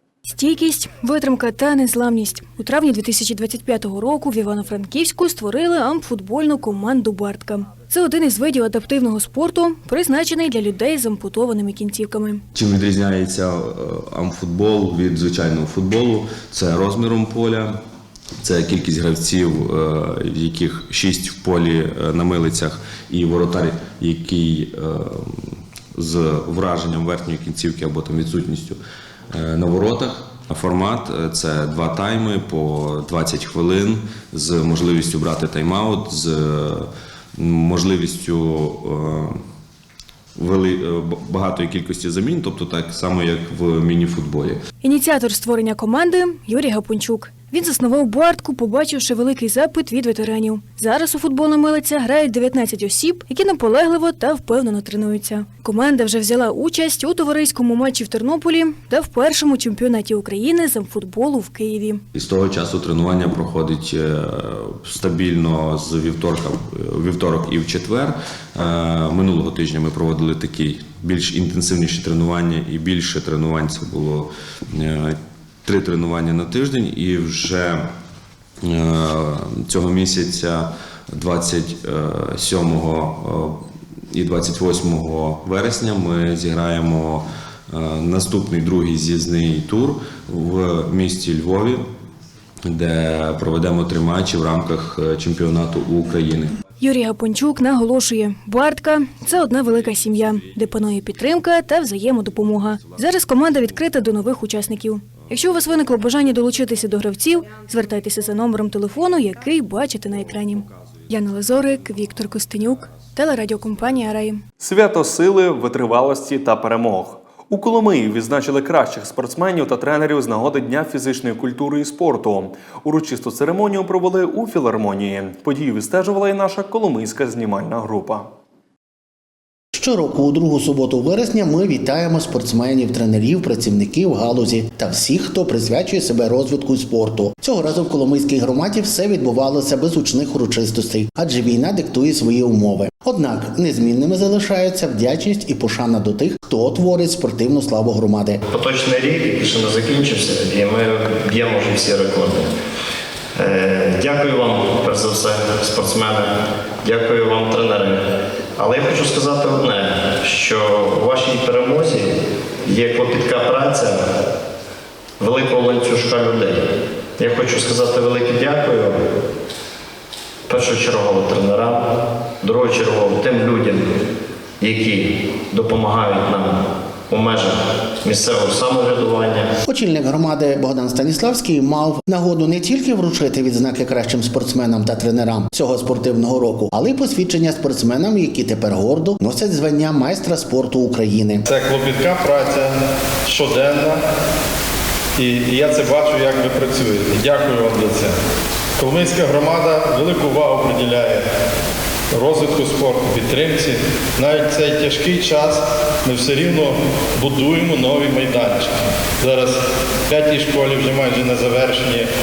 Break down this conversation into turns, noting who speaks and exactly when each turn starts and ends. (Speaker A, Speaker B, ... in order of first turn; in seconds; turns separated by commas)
Speaker A: 0.3-12.4, Speaker B: 12.5-17.8, Speaker B: 18.4-25.3, Speaker B: 25.9-28.8, Speaker B: 29.3-39.4, Speaker B: 40.4-44.6, Speaker A: 44.8-62.0, Speaker B: 62.1-77.8, Speaker B: 78.7-83.6, Speaker B: 84.1-91.8, Speaker B: 92.7-96.6, Speaker A: 96.8-114.4, Speaker C: 114.6-128.3, Speaker D: 129.7-148.4, Speaker E: 148.5-152.5, Speaker E: 153.4-158.1, Speaker E: 158.6-162.1, Speaker E: 162.7-164.0, Speaker E: 165.2-166.6, Speaker E: 167.2-169.0, Speaker E: 170.5-171.8, Speaker E: 172.4-173.8, Speaker E: 174.6-176.6, Speaker E: 177.1-179.5, Speaker D: 179.7-191.4, Speaker F: 191.5-192.8, Speaker F: 193.3-194.0, Speaker F: 195.2-198.1, Speaker F: 198.8-201.2, Speaker F: 202.1-209.6, Speaker F: 210.1-212.1